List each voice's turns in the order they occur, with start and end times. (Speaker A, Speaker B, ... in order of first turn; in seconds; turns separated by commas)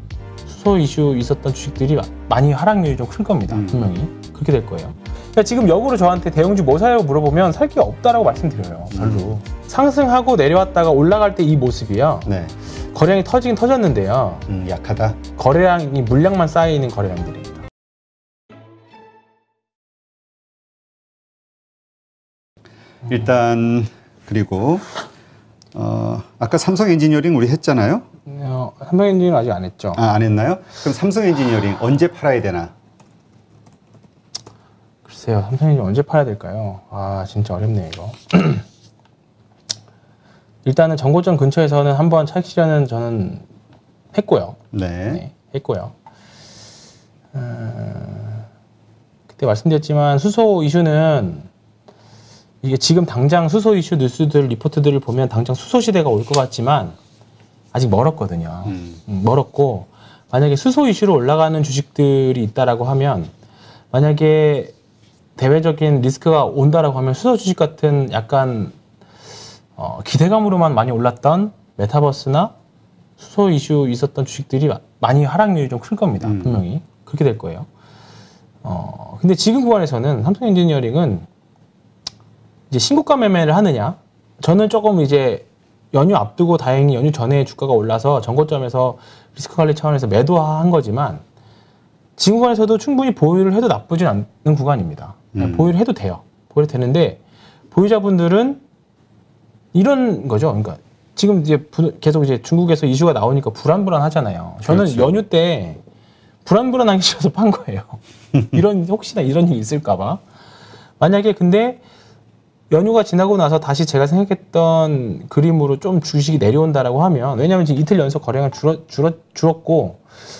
Speaker A: 0.4-12.3, Speaker B: 3.5-3.9, Speaker B: 8.9-9.3, Speaker B: 12.2-12.5, Speaker A: 12.9-14.5, Speaker B: 14.5-15.2, Speaker A: 15.3-17.6, Speaker B: 23.1-24.9, Speaker B: 25.7-28.0, Speaker A: 28.2-30.0, Speaker B: 29.9-32.7, Speaker A: 35.0-38.6, Speaker A: 40.6-43.5, Speaker A: 44.1-45.9, Speaker B: 44.7-45.2, Speaker A: 47.3-48.4, Speaker A: 49.3-51.5, Speaker A: 52.6-57.0, Speaker A: 57.7-63.3, Speaker A: 63.9-64.7, Speaker A: 65.4-68.8, Speaker A: 69.8-72.5, Speaker A: 73.2-77.7, Speaker B: 76.2-76.6, Speaker A: 78.6-81.2, Speaker A: 82.7-91.2, Speaker A: 92.2-97.2, Speaker B: 95.3-95.7, Speaker A: 97.7-98.6, Speaker A: 99.7-105.8, Speaker B: 104.7-105.2, Speaker A: 106.4-110.2, Speaker A: 111.0-111.8, Speaker A: 112.7-120.0